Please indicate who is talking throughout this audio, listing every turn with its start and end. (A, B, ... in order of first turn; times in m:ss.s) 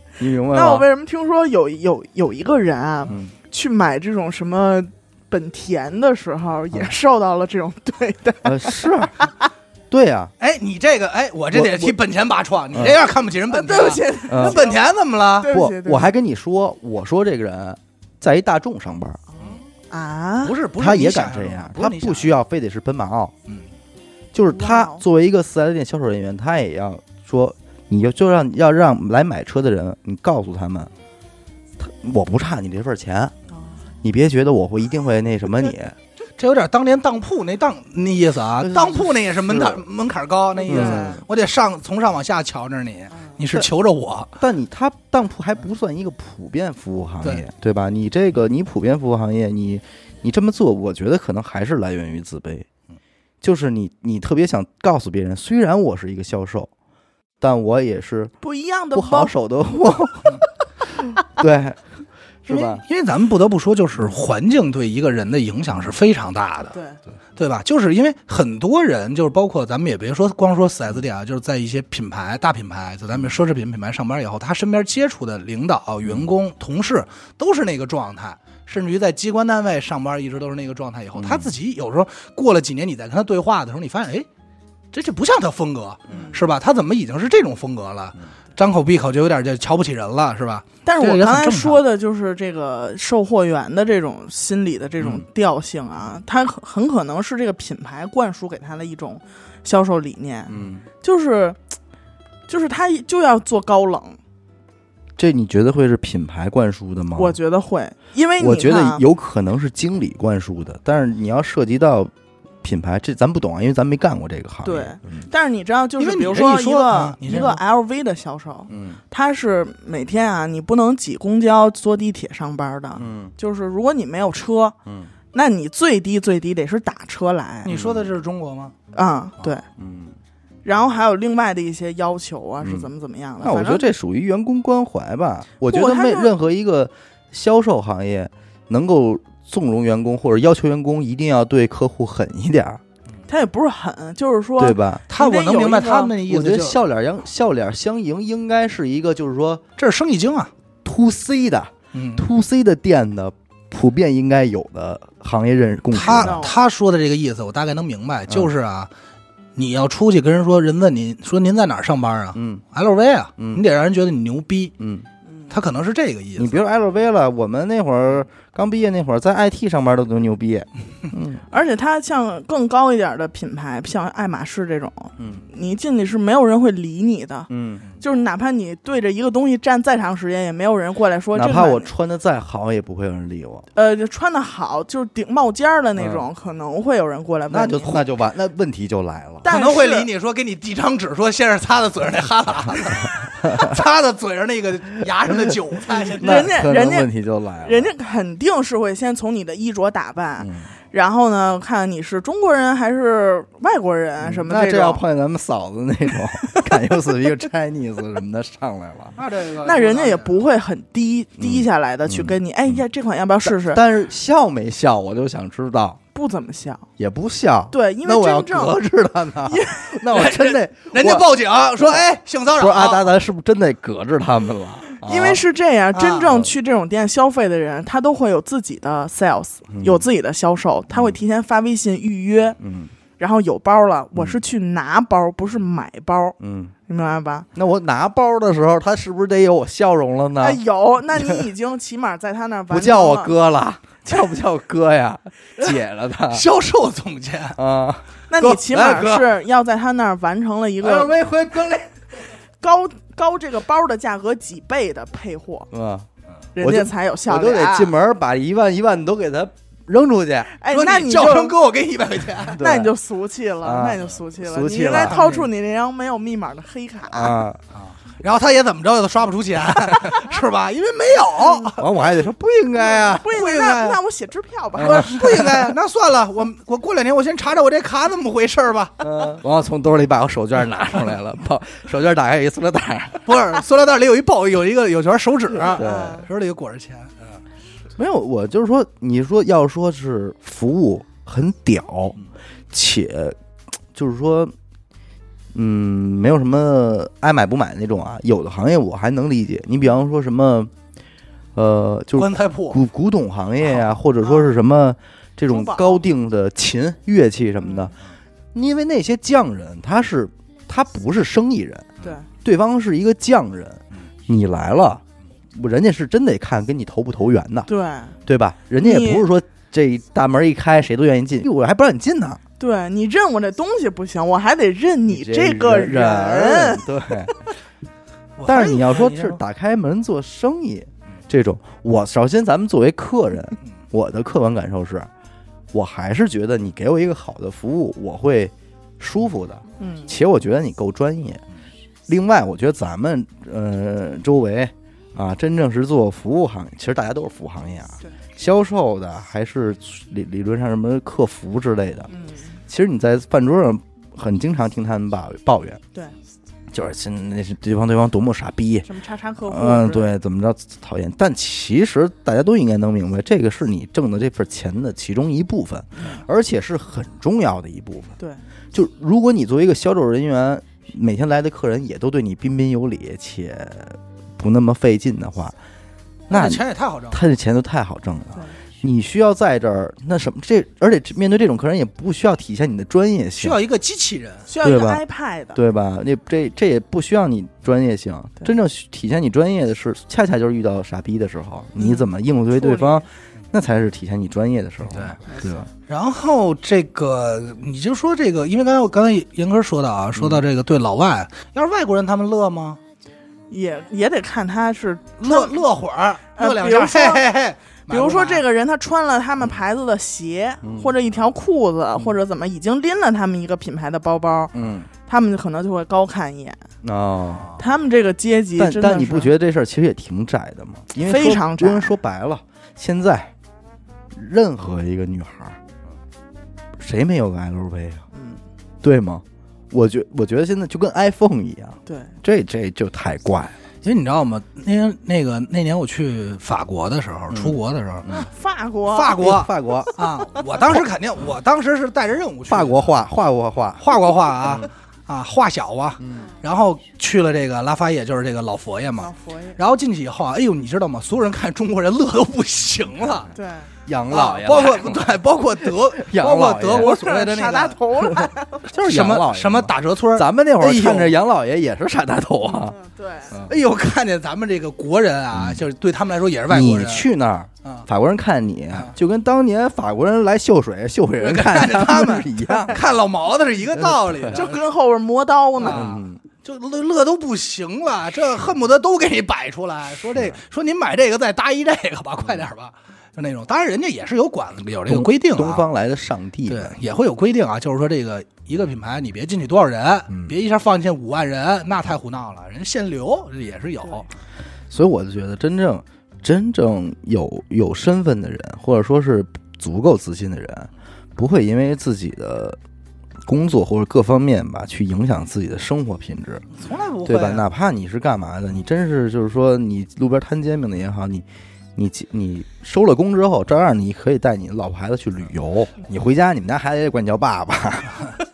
0:00.2-0:00.9 A
0:00.4-0:09.4 B
0:08.4-0:09.3 A
0:09.9-0:10.3 A
0:10.4-0:15.5 C
0:11.5-0:12.0 A
0:12.7-0:13.0 A
0:13.5-0:14.8 B
0:14.3-0:14.6 A
0:15.4-0:16.1 B
0:15.4-0:19.2 A
0:19.4-0:20.6 B
0:20.4-0:22.4 C
0:20.8-0:23.3 A
0:24.3-0:30.9 A
0:24.5-0:25.0 B
0:31.8-0:33.3 A
0:33.5-0:33.8 B
0:34.0-0:36.0 A
0:36.4-0:44.3 C
0:38.6-0:39.8 A
0:40.6-0:41.2 B
0:40.7-0:41.2 A
0:43.1-0:43.4 B
0:44.4-0:52.7 A
0:53.4-0:56.7 A
0:57.4-0:58.3 A
0:58.4-0:59.3 B
0:58.9-1:00.4 A
1:00.9-1:01.8 A
1:02.4-1:02.8 A
1:02.5-1:06.8 C
1:06.7-1:07.0 B
1:07.4-1:24.3 C
1:21.2-1:21.5 A
1:24.9-1:31.8 C
1:26.1-1:26.4 B
1:30.8-1:41.6 B
1:40.5-1:40.8 A
1:42.5-1:44.2 B
1:45.2-1:47.4 A
1:47.2-1:49.0 B
1:48.4-1:52.1 A
1:52.6-1:55.3 A
1:54.6-2:04.8 B
1:56.0-1:57.6 C
1:58.7-1:59.0 A
2:03.0-2:03.3 A
2:04.8-2:05.1 A
2:05.3-2:07.7 B
2:07.6-2:08.7 C
2:07.7-2:08.1 A
2:08.9-2:09.6 B
2:09.7-2:10.2 A
2:10.6-2:13.9 B
2:12.6-2:12.9 A
2:13.4-2:22.8 A
2:15.7-2:16.3 B
2:23.3-2:26.2 B
2:24.6-2:25.1 A
2:25.1-2:26.8 C
2:26.2-2:29.6 A
2:29.8-2:30.5 C
2:30.8-2:36.5 A
2:31.9-2:32.2 C
2:35.9-2:38.9 C
2:36.1-2:36.6 B
2:39.6-2:44.7 C
2:42.3-2:42.6 A
2:43.4-2:43.6 A
2:44.8-2:45.1 A
2:45.5-2:46.6 C
2:46.4-2:51.4 A
2:51.5-2:57.5 B
2:55.2-2:55.4 A
2:57.5-2:57.8 A
2:58.0-3:01.9 B
3:01.3-3:03.7 A
3:03.8-3:08.0 B
3:06.0-3:06.3 A
3:07.5-3:09.5 A
3:09.4-3:10.1 B
3:09.5-3:16.6 C
3:13.4-3:13.7 A
3:16.2-3:17.1 B
3:16.2-3:17.9 A
3:17.6-3:25.0 B
3:20.4-3:20.7 A
3:24.2-3:29.2 A
3:26.4-3:26.8 B
3:29.2-3:30.4 C
3:29.6-3:33.8 B
3:31.4-3:32.4 A
3:33.4-3:36.0 A
3:36.1-3:36.9 B
3:37.0-3:42.0 A
3:37.7-3:38.8 B
3:39.5-3:40.3 B
3:40.1-3:43.1 C
3:42.6-3:45.4 A
3:45.0-3:52.6 B
3:45.9-3:46.4 C
3:49.7-3:50.0 A
3:52.6-3:52.9 A
3:53.2-3:56.4 B
3:54.2-3:54.4 A
3:56.4-3:56.7 A
3:56.9-3:57.5 B
3:57.6-4:00.6 A
4:00.4-4:03.3 B
4:01.1-4:01.4 A
4:02.7-4:06.5 A
4:06.3-4:07.6 C
4:07.6-4:09.1 A
4:08.3-4:11.2 B
4:08.8-4:09.2 C
4:10.8-4:11.9 A
4:12.6-4:15.7 B
4:15.7-4:20.5 A
4:16.6-4:17.9 B
4:20.6-4:21.6 B
4:20.7-4:22.6 C
4:22.4-4:22.9 A
4:22.6-4:27.4 B
4:23.6-4:25.2 A
4:24.9-4:25.5 C
4:27.1-4:27.6 A
4:27.8-4:31.9 C
4:31.4-4:31.7 B
4:31.8-4:33.4 A
4:32.8-4:35.5 B
4:33.3-4:34.0 C
4:34.8-4:35.7 A
4:34.8-4:39.0 C
4:39.0-4:43.4 A
4:43.3-4:47.4 C
4:45.7-4:46.2 A
4:45.8-4:46.3 B
4:48.0-4:52.2 A
4:52.7-4:53.4 A
4:53.9-4:54.5 A
4:55.5-5:00.7 A
5:01.6-5:08.0 A
5:02.2-5:02.8 C
5:05.5-5:06.0 B
5:07.6-5:07.9 B
5:08.5-5:17.7 A
5:12.0-5:12.3 B
5:17.7-5:18.2 B
5:18.3-5:22.4 A
5:18.8-5:19.3 B
5:22.6-5:26.9 B
5:25.1-5:27.3 A
5:28.4-5:29.4 C
5:28.4-5:35.1 A
5:35.7-5:41.4 A
5:39.8-5:40.1 B
5:42.1-5:52.1 A
5:52.1-5:52.6 B
5:52.7-5:55.8 A
5:56.7-5:58.9 A
5:58.8-6:00.1 B
5:59.4-6:08.2 A
6:06.0-6:06.2 B
6:08.7-6:15.6 A
6:16.3-6:23.6 A
6:16.3-6:17.2 C
6:23.4-6:24.5 C
6:24.5-6:25.6 B
6:24.6-6:25.0 A
6:25.5-6:35.7 A
6:31.8-6:33.1 B
6:34.9-6:35.2 C
6:35.3-6:35.6 B
6:35.8-6:42.8 C
6:40.2-6:40.4 A
6:43.5-6:45.6 B
6:45.2-6:48.4 C
6:46.4-6:47.2 B
6:47.9-6:54.5 B
6:50.6-6:50.9 A
6:54.5-6:54.9 A
6:55.1-6:56.6 B
6:56.8-6:57.5 A
6:57.6-6:59.3 B
6:58.6-7:03.3 A
7:01.0-7:01.9 B
7:04.1-7:05.6 A
7:06.8-7:08.1 A
7:08.1-7:08.4 B
7:08.8-7:13.6 A
7:11.9-7:12.1 B
7:13.8-7:18.2 C
7:17.3-7:18.3 A
7:18.1-7:19.2 B
7:18.9-7:23.0 C
7:19.2-7:19.9 A
7:22.5-7:23.8 A
7:23.8-7:33.3 C
7:24.4-7:24.7 A
7:26.0-7:26.3 A
7:29.0-7:29.6 B
7:33.4-7:33.7 B
7:33.9-7:37.0 A
7:34.1-7:37.8 C
7:36.7-7:38.6 B
7:38.0-7:42.8 A
7:38.8-7:41.2 C
7:42.5-7:43.3 B
7:43.4-7:47.1 C
7:45.3-7:45.6 A
7:46.5-7:52.8 A
7:51.2-7:54.6 C
7:53.8-7:54.4 A
7:54.3-7:55.8 B
7:55.6-8:05.6 C
7:55.6-7:56.2 A
8:04.9-8:06.8 A
8:06.5-8:14.1 C
8:14.7-8:22.6 A
8:23.2-8:26.5 A
8:26.5-8:27.5 C
8:27.0-8:38.1 A